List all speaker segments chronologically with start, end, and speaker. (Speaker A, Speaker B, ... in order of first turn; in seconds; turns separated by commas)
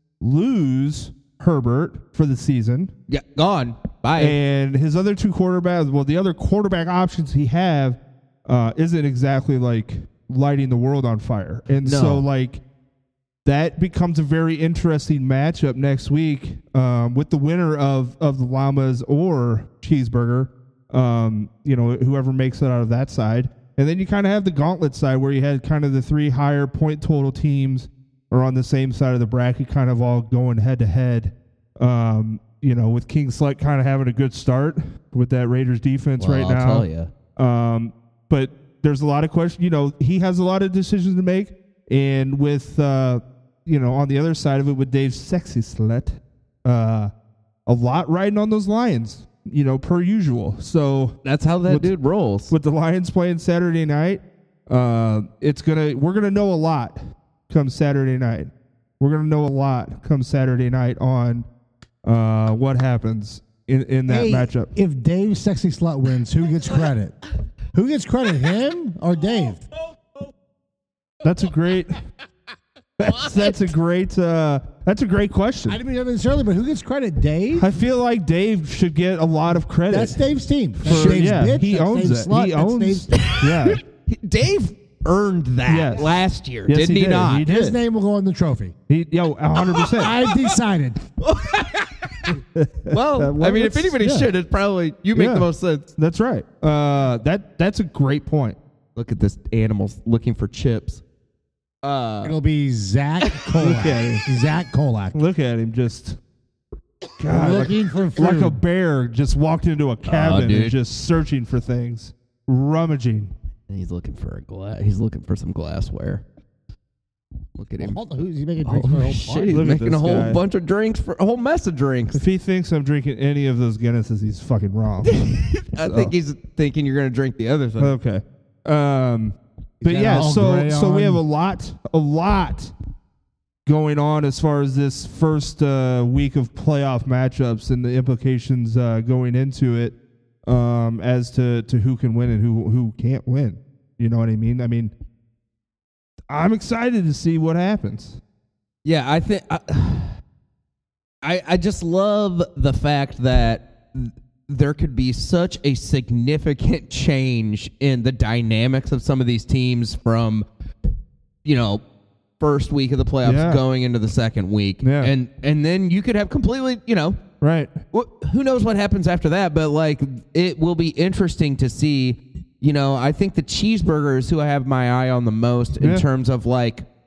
Speaker A: 0.2-2.9, Speaker B: 3.1-4.4, Speaker A: 4.2-12.6, Speaker B: 11.8-12.2, Speaker A: 13.4-47.1, Speaker B: 36.2-37.1, Speaker A: 47.7-51.9, Speaker B: 51.2-52.5, Speaker A: 52.5-61.5, Speaker A: 62.0-64.7, Speaker C: 64.1-67.2, Speaker C: 67.7-69.6, Speaker A: 71.2-72.0, Speaker A: 73.0-75.8, Speaker C: 75.7-77.7, Speaker A: 77.5-80.2, Speaker C: 79.9-83.3, Speaker A: 80.8-83.8, Speaker B: 80.8-81.2, Speaker B: 83.5-87.8, Speaker A: 85.7-86.1, Speaker A: 86.7-87.8, Speaker C: 87.5-88.8, Speaker A: 88.9-90.2, Speaker B: 89.8-90.5, Speaker C: 90.0-91.0, Speaker B: 91.2-92.3, Speaker A: 92.6-94.1, Speaker B: 92.9-95.9, Speaker A: 95.1-98.6, Speaker B: 99.0-101.0, Speaker B: 101.8-102.4, Speaker C: 102.2-105.2, Speaker B: 103.3-103.9, Speaker A: 103.6-104.3, Speaker A: 105.1-106.2, Speaker C: 107.2-108.6, Speaker A: 107.2-113.3, Speaker B: 110.1-110.8, Speaker B: 113.7-116.2, Speaker B: 117.6-118.0, Speaker C: 117.8-119.6, Speaker B: 118.6-122.2, Speaker A: 119.5-120.4, Speaker A: 122.1-125.2, Speaker B: 125.0-127.9, Speaker A: 125.8-126.1, Speaker A: 127.8-132.7, Speaker C: 129.8-131.2, Speaker A: 133.7-144.9, Speaker A: 146.3-148.2, Speaker B: 148.8-150.2, Speaker B: 151.2-160.5, Speaker B: 161.4-161.8, Speaker B: 162.4-167.2, Speaker A: 163.2-163.6, Speaker A: 164.8-165.1, Speaker A: 167.4-167.8, Speaker B: 167.9-176.9, Speaker A: 175.8-176.1